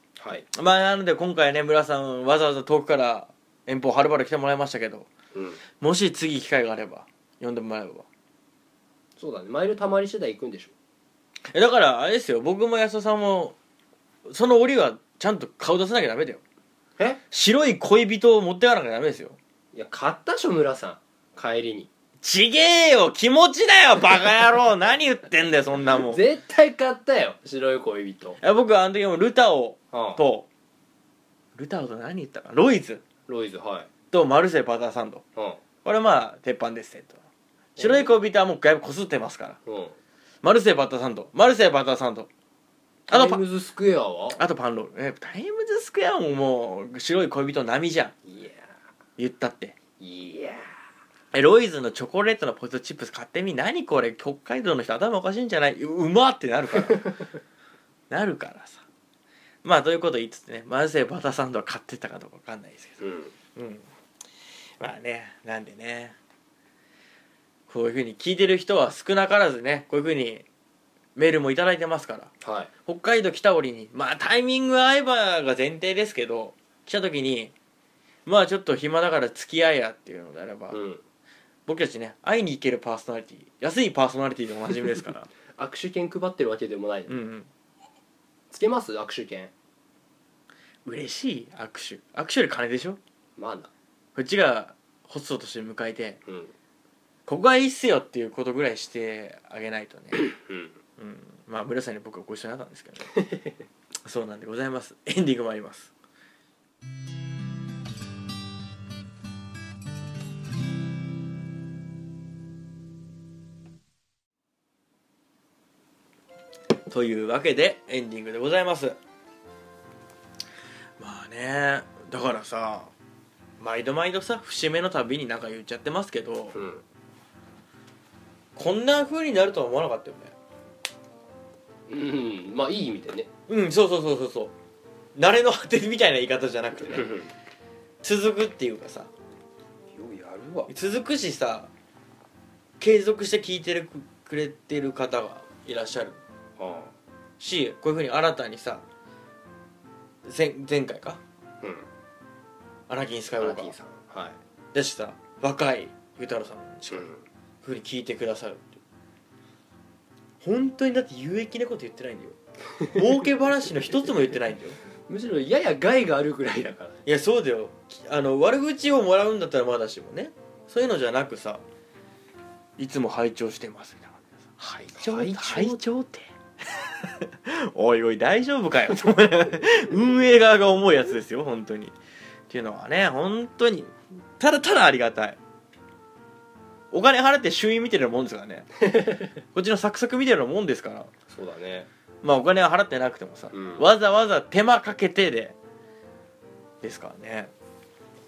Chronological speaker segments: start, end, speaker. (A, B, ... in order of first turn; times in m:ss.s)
0:00.2-0:00.5 A
0:00.5-0:05.1 B
0:05.3-0:05.6 A
0:05.8-0:08.1 B
0:09.2-0:10.7 A
0:11.5-0:13.6 B
0:14.3-0:16.4 B
0:17.3-0:19.4 B
0:19.7-0:21.9 A
0:22.2-0:26.2 B
0:26.0-0:28.4 A
0:28.4-0:30.5 B
0:29.9-0:30.2 A
0:31.6-0:33.0 B
0:33.3-0:33.9 A
0:34.1-0:35.2 B
0:35.4-0:35.6 A
0:35.8-0:37.2 B
0:37.8-0:38.1 A
0:37.8-0:39.6 B
0:39.7-0:40.0 A
0:40.4-0:42.3 B
0:43.1-0:44.4 A
0:43.1-0:43.4 B
0:44.3-0:48.1 B
0:48.3-0:48.7 A
0:49.2-0:49.8 B
0:50.0-0:50.6 A
0:51.3-0:57.1 B
0:58.1-0:58.8 B
0:59.6-1:03.0 B
1:03.0-1:03.3 A
1:03.6-1:03.8 B
1:04.8-1:06.2 B
1:07.7-1:10.4 B
1:11.2-1:12.3 B
1:12.4-1:12.7 A
1:12.9-1:17.5 B
1:18.3-1:20.8 B
1:20.7-1:21.0 A
1:21.7-1:25.3 B
1:25.6-1:27.2 A
1:27.1-1:27.5 B
1:28.5-1:29.5 A
1:30.8-1:33.0 B
1:33.4-1:33.7 A
1:34.1-1:36.2 B
1:36.3-1:36.5 A
1:37.3-1:40.3 B
1:40.2-1:40.8 A
1:41.0-1:43.1 B
1:43.1-1:43.5 A
1:44.0-1:45.9 B
1:56.9-1:59.0 B
2:01.0-2:02.9 B
2:03.6-2:06.6 B
2:06.5-2:06.8 A
2:08.6-2:10.3 B
2:11.9-2:13.3 A
2:13.5-2:14.5 B
2:15.2-2:17.1 B
2:16.8-2:17.3 A
2:18.0-2:19.1 B
2:19.9-2:20.7 A
2:20.7-2:21.7 B
2:22.8-2:26.2 B
2:26.6-2:26.9 A
2:27.4-2:28.8 B
2:30.2-2:31.2 B
2:31.6-2:31.9 A
2:32.9-2:33.7 B
2:33.4-2:34.4 A
2:34.7-2:37.1 B
2:36.9-2:37.2 A
2:37.6-2:38.8 B
2:40.4-2:44.8 B
2:45.1-2:47.0 A
2:47.1-2:51.6 B
2:52.8-3:02.0 B
2:54.8-2:55.8 A
3:02.5-3:05.4 B
3:06.9-3:08.7 B
3:08.8-3:09.4 A
3:09.5-3:11.1 B
3:11.3-3:11.9 A
3:12.2-3:15.6 B
3:13.5-3:13.9 A
3:16.8-3:17.5 B